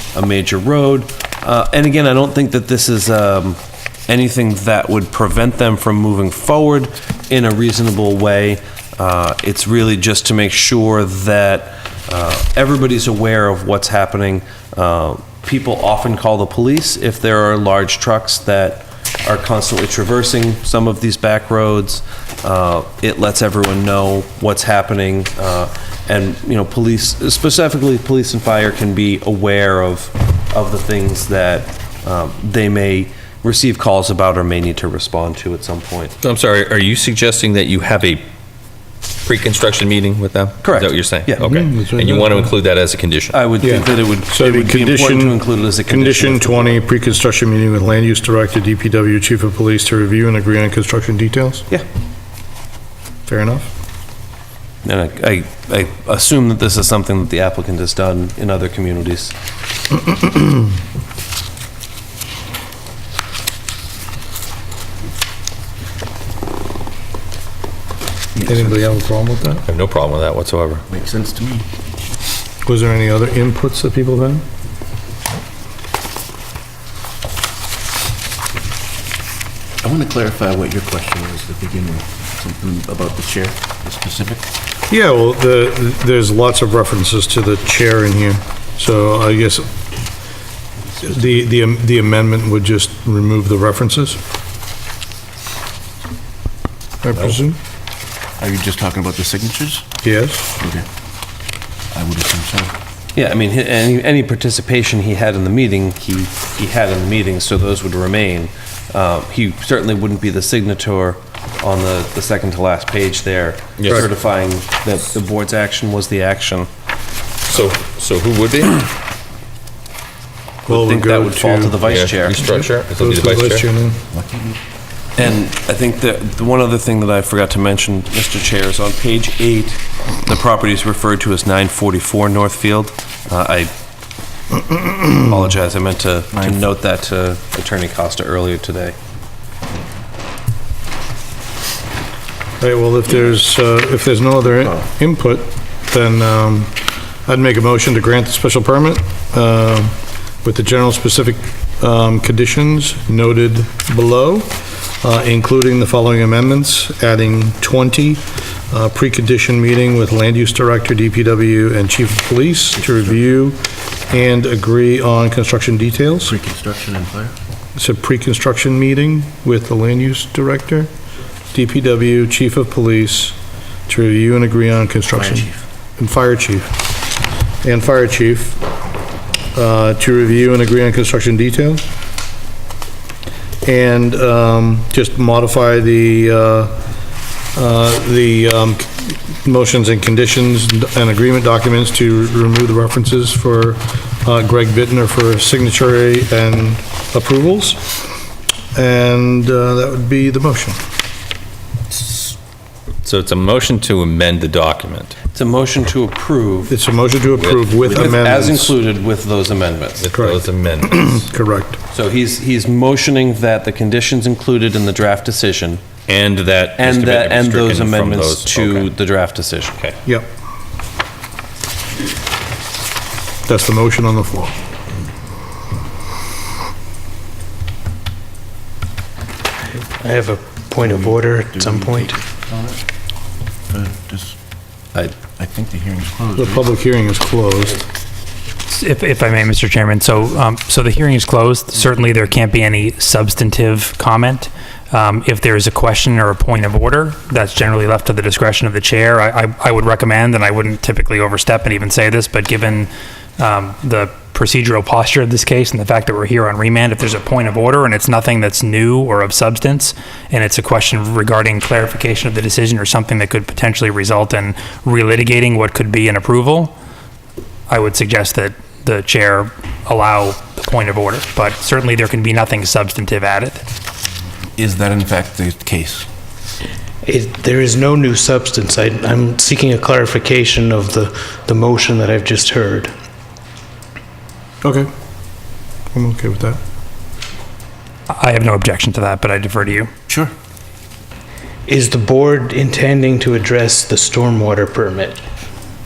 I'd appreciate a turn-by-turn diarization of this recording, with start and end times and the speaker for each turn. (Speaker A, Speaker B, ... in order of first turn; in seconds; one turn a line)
Speaker A: 0.1-36.1
Speaker B: 36.2-38.2
Speaker B: 39.2-43.4
Speaker A: 40.6-41.5
Speaker C: 41.4-42.5
Speaker A: 43.3-46.8
Speaker C: 43.6-51.7
Speaker C: 53.3-53.7
Speaker A: 54.8-59.4
Speaker D: 68.3-68.9
Speaker C: 68.4-69.6
Speaker B: 69.7-70.8
Speaker D: 70.9-71.7
Speaker C: 72.7-74.5
Speaker D: 79.8-84.5
Speaker C: 84.9-89.7
Speaker C: 91.0-94.2
Speaker C: 97.0-97.6
Speaker D: 98.4-99.9
Speaker C: 100.0-100.5
Speaker D: 100.6-100.8
Speaker D: 101.9-102.8
Speaker A: 103.2-116.7
Speaker B: 113.8-114.0
Speaker B: 117.5-118.8
Speaker C: 120.7-121.8
Speaker A: 120.7-122.6
Speaker B: 121.8-123.7
Speaker C: 122.4-124.0
Speaker D: 124.1-124.6
Speaker A: 125.2-133.7
Speaker C: 134.7-135.3
Speaker A: 135.2-139.0
Speaker C: 142.6-166.3
Speaker D: 166.2-167.4
Speaker C: 167.8-170.9
Speaker C: 171.5-173.4
Speaker C: 173.9-176.8
Speaker D: 175.1-175.6
Speaker C: 177.6-178.6
Speaker C: 179.5-181.8
Speaker C: 183.6-186.7
Speaker C: 187.6-198.1
Speaker C: 198.8-200.8
Speaker B: 201.9-202.3
Speaker B: 203.0-205.2
Speaker A: 205.3-206.7
Speaker C: 206.7-208.8
Speaker B: 207.4-208.1
Speaker A: 207.8-210.1
Speaker B: 210.0-211.2
Speaker C: 210.1-211.8
Speaker A: 211.9-215.8
Speaker B: 216.1-218.9
Speaker A: 216.8-219.8
Speaker C: 223.5-224.6
Speaker E: 229.9-232.2
Speaker D: 230.8-232.8
Speaker D: 233.7-234.4
Speaker D: 235.3-236.7
Speaker C: 236.4-237.8
Speaker F: 238.7-266.7
Speaker F: 267.7-273.6
Speaker D: 274.6-276.1
Speaker E: 277.0-282.9
Speaker C: 284.6-284.9
Speaker C: 285.9-286.6
Speaker F: 288.1-289.9
Speaker D: 290.1-290.3
Speaker E: 291.7-295.2